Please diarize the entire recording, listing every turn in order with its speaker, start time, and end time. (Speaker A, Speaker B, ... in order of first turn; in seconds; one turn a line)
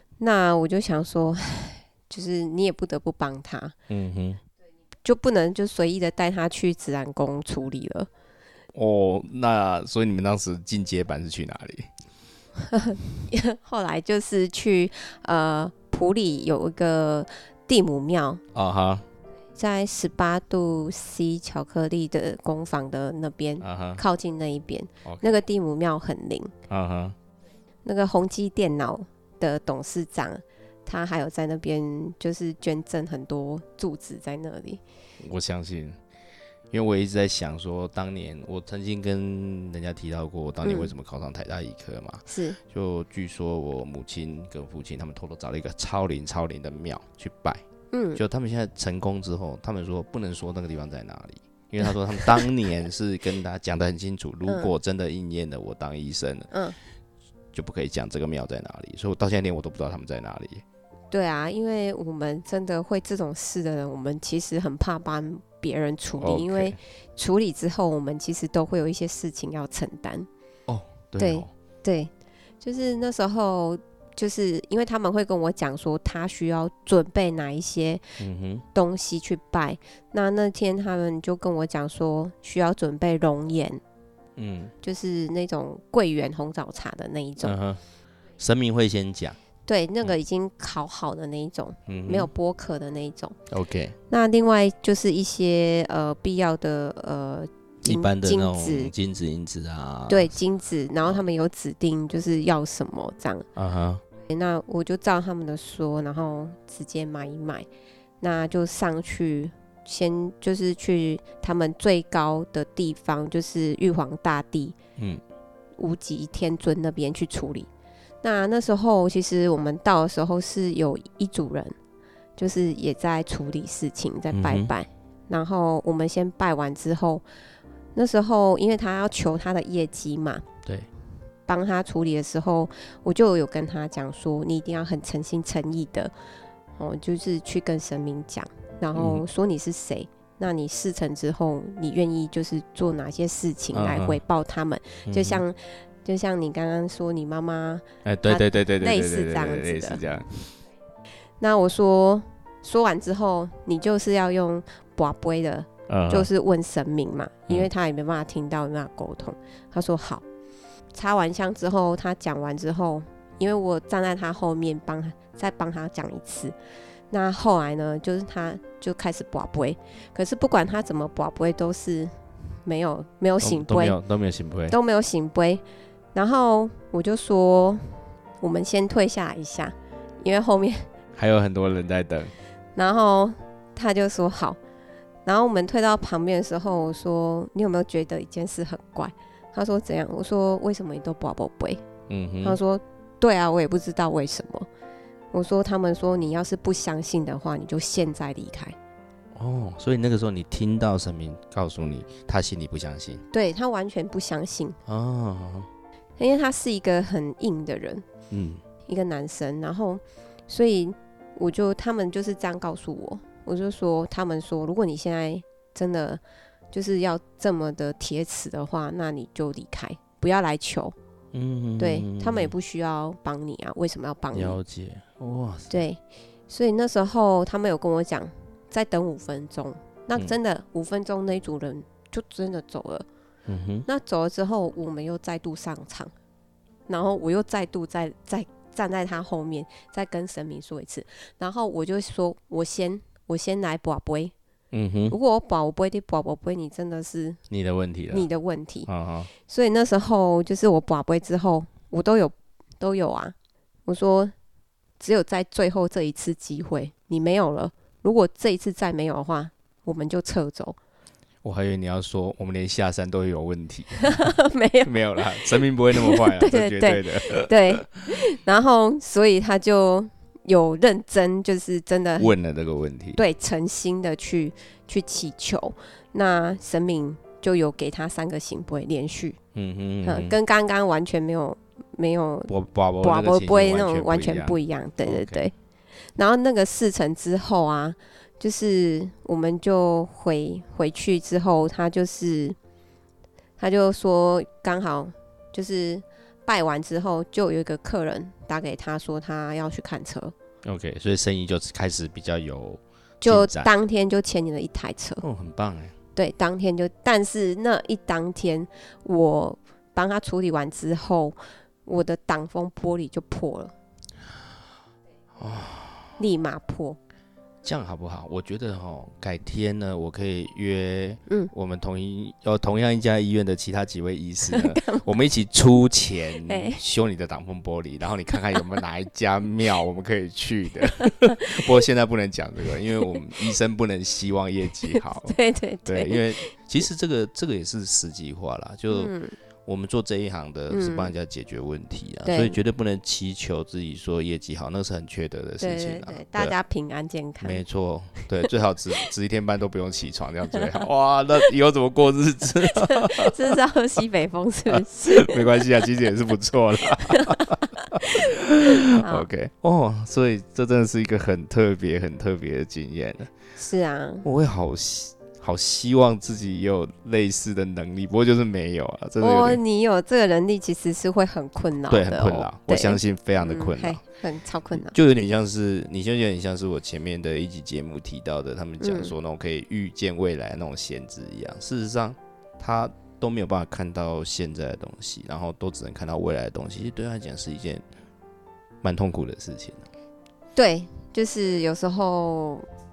Speaker A: 0.2-3.7
Speaker B: 3.9-4.4
Speaker A: 5.0-8.1
Speaker B: 8.8-11.9
Speaker A: 12.6-18.4
Speaker B: 18.5-19.0
Speaker A: 19.6-26.5
Speaker B: 23.6-24.0
Speaker B: 25.0-25.3
Speaker B: 26.7-27.2
Speaker A: 27.9-34.8
Speaker B: 35.2-36.0
Speaker B: 36.7-47.6
Speaker A: 40.6-40.9
Speaker A: 42.3-42.6
Speaker A: 47.9-48.2
Speaker B: 48.2-56.5
Speaker A: 54.5-54.7
Speaker B: 57.5-60.6
Speaker A: 61.1-70.3
Speaker B: 66.2-66.8
Speaker B: 70.7-71.5
Speaker A: 71.2-78.0
Speaker B: 78.2-78.7
Speaker A: 78.7-83.8
Speaker B: 84.4-84.7
Speaker A: 84.8-87.6
Speaker B: 87.4-87.8
Speaker B: 88.4-89.4
Speaker A: 89.7-93.3
Speaker B: 91.9-92.3
Speaker B: 93.5-94.0
Speaker A: 94.1-98.9
Speaker B: 97.8-100.3
Speaker A: 100.1-103.5
Speaker B: 103.6-104.0
Speaker A: 104.3-107.7
Speaker A: 108.2-114.8
Speaker B: 115.0-115.2
Speaker A: 115.8-117.7
Speaker A: 118.2-121.7
Speaker A: 122.4-127.2
Speaker B: 124.3-124.7
Speaker A: 128.0-130.4
Speaker A: 131.5-136.1
Speaker A: 136.8-150.0
Speaker B: 138.9-139.2
Speaker B: 143.7-144.2
Speaker B: 145.1-145.4
Speaker B: 148.1-150.5
Speaker A: 151.4-160.2
Speaker B: 155.9-156.3
Speaker A: 160.9-166.6
Speaker A: 167.1-174.0
Speaker B: 173.4-174.8
Speaker A: 174.7-175.6
Speaker A: 176.1-180.9
Speaker B: 181.2-182.3
Speaker A: 182.8-184.6
Speaker A: 185.2-191.8
Speaker B: 192.1-192.6
Speaker A: 192.4-194.7
Speaker A: 195.3-198.8
Speaker B: 199.3-203.2
Speaker A: 203.3-204.8
Speaker B: 204.9-205.7
Speaker A: 206.2-208.1
Speaker B: 208.3-208.6
Speaker A: 208.9-220.9
Speaker B: 221.3-222.5
Speaker A: 221.8-224.6
Speaker B: 224.3-225.9
Speaker A: 225.7-233.1
Speaker B: 233.5-233.9
Speaker A: 233.9-236.1
Speaker A: 236.9-244.3
Speaker B: 244.7-245.2
Speaker A: 245.1-247.4
Speaker B: 247.5-248.3
Speaker A: 248.1-248.9
Speaker B: 248.9-249.3
Speaker A: 249.5-253.3
Speaker A: 253.9-254.3
Speaker A: 255.0-260.8
Speaker B: 261.4-267.9
Speaker A: 264.0-272.3
Speaker B: 272.2-273.2
Speaker A: 273.2-279.4
Speaker B: 279.6-280.4
Speaker A: 280.1-285.5
Speaker B: 282.5-285.5
Speaker A: 286.2-292.6
Speaker A: 293.6-300.3
Speaker B: 300.6-303.7
Speaker A: 303.2-305.2
Speaker B: 305.2-305.9
Speaker A: 306.2-313.7
Speaker B: 315.4-316.2
Speaker A: 316.2-317.0
Speaker B: 317.6-339.1
Speaker A: 324.5-325.1
Speaker A: 326.5-326.8
Speaker A: 334.9-336.5
Speaker A: 338.9-339.4
Speaker B: 339.7-346.6
Speaker A: 340.7-341.1
Speaker A: 342.3-342.6
Speaker A: 345.6-347.6
Speaker B: 347.4-353.6
Speaker A: 352.7-355.7
Speaker B: 354.7-363.3
Speaker A: 357.0-359.3
Speaker A: 363.6-364.3
Speaker B: 364.2-369.6
Speaker A: 369.2-374.9
Speaker B: 371.9-374.0
Speaker B: 374.8-387.8
Speaker A: 378.8-379.1
Speaker B: 388.8-389.9
Speaker A: 390.6-392.7